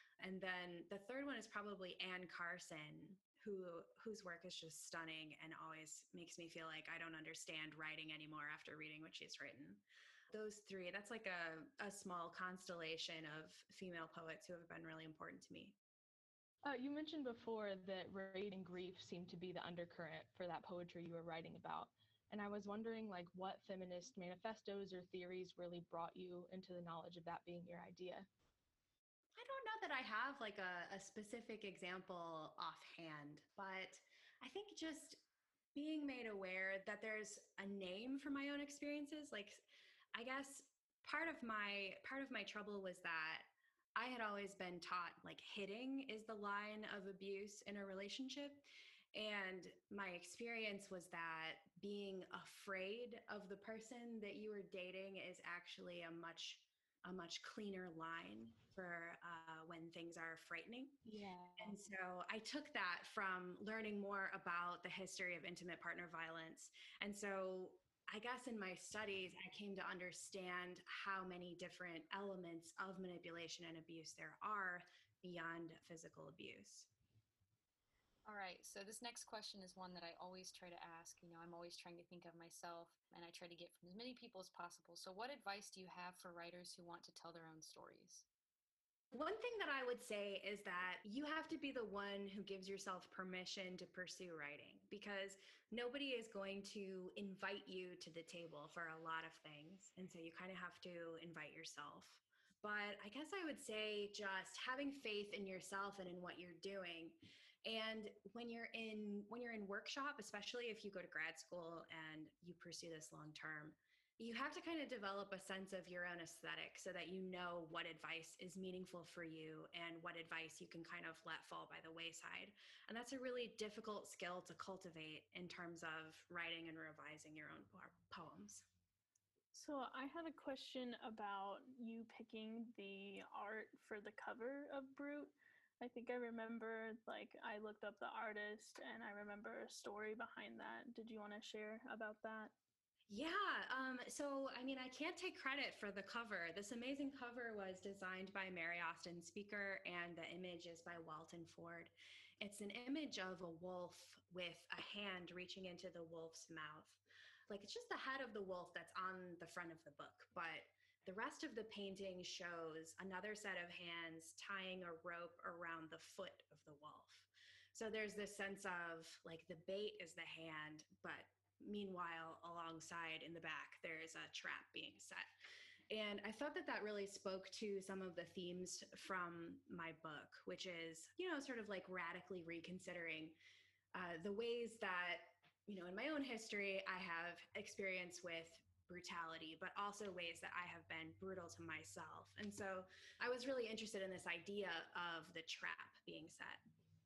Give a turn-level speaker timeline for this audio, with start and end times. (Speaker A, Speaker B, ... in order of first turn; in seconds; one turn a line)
Speaker A: 0.2-15.8
Speaker B: 16.6-28.3
Speaker A: 29.4-35.2
Speaker A: 35.8-39.6
Speaker A: 40.1-61.0
Speaker B: 61.0-61.8
Speaker A: 61.6-76.9
Speaker C: 78.2-88.2
Speaker A: 89.1-128.7
Speaker D: 129.5-142.6
Speaker A: 143.1-175.3
Speaker A: 175.9-183.4
Speaker A: 183.9-196.6